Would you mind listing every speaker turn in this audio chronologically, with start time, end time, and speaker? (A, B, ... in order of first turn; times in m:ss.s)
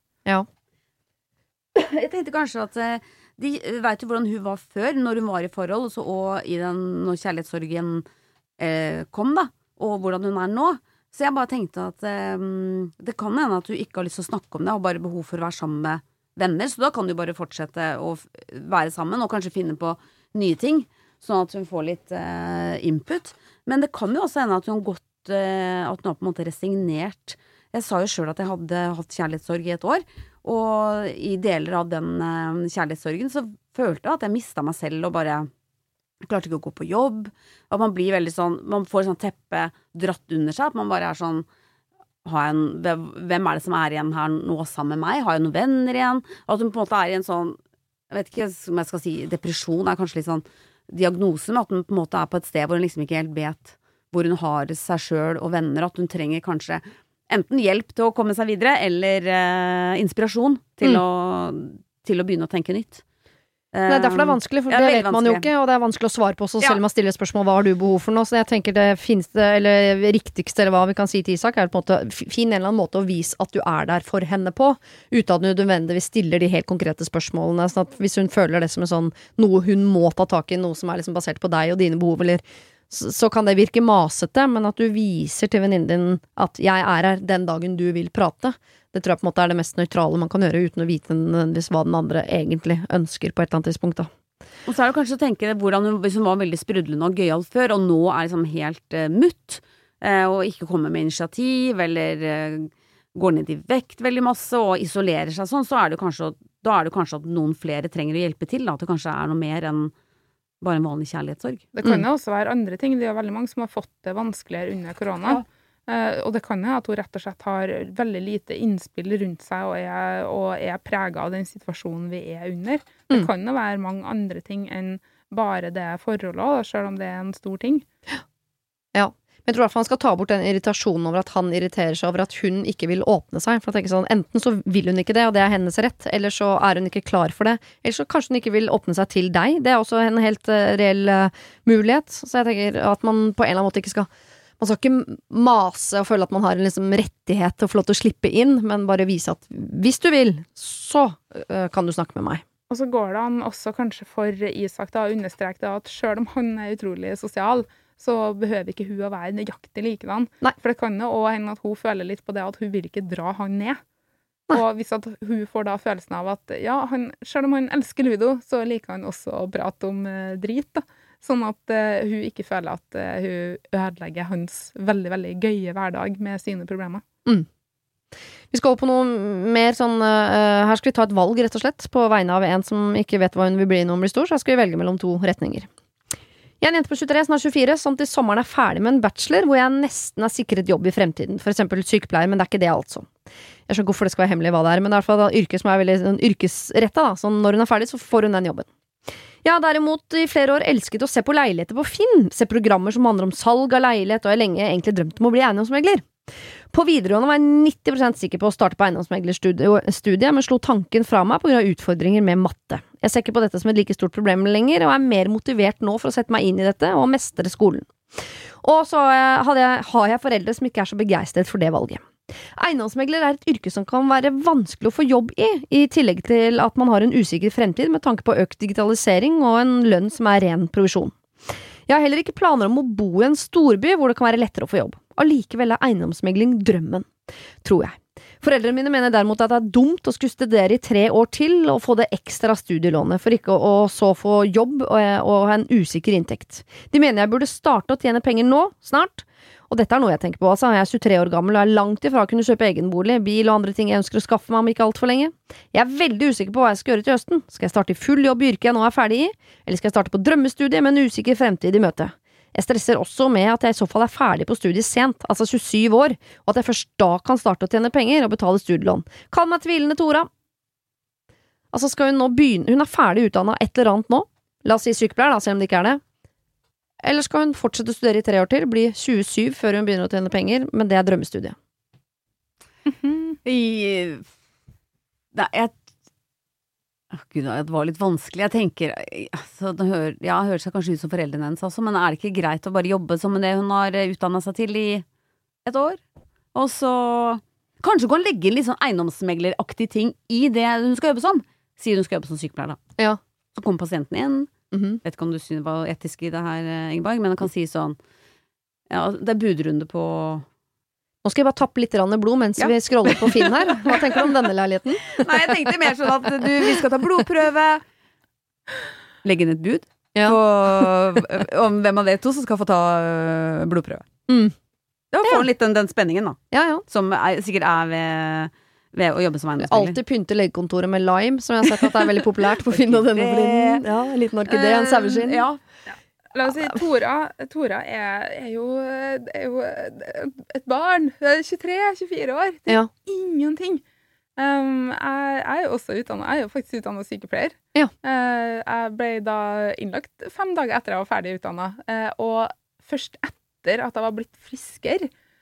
0:01.8-0:08.0 A
0:08.6-0:35.5 A
0:36.2-0:41.5 A
0:42.2-0:47.6 A
0:48.1-1:03.0 A
1:03.7-1:05.5 A
1:03.9-1:34.1 B
1:34.7-1:49.9 A
1:50.6-1:51.6 A
1:51.8-2:07.8 C
2:08.9-2:24.1 B
2:24.6-2:32.4 B
2:32.7-2:43.8 C
2:44.5-2:57.0 C
2:58.5-3:05.7 B
3:06.6-3:13.1 B
3:13.7-3:18.7 B
3:19.4-3:26.1 B
3:26.7-3:37.9 B
3:38.6-3:51.2 B
3:51.9-3:57.1 B
3:57.6-4:30.3 B
4:31.7-4:36.0 B
4:37.0-4:41.6 B
4:43.4-4:44.3 A
4:45.3-4:45.8 A
4:47.1-4:55.0 A
4:55.6-4:56.0 A
4:56.5-5:02.8 A
5:03.6-5:04.5 A
5:04.7-5:05.0 B
5:05.0-5:08.0 A
5:08.9-5:10.5 A
5:11.2-5:15.7 B
5:12.6-5:14.0 A
5:15.1-5:17.8 A
5:16.4-5:16.8 B
5:19.2-5:24.0 A
5:20.1-5:20.9 B
5:24.3-5:24.6 B
5:25.1-5:30.0 A
5:26.5-5:26.8 B
5:29.6-5:35.4 B
5:32.7-5:33.9 A
5:34.5-5:35.6 A
5:35.9-5:43.8 C
5:44.4-5:55.1 C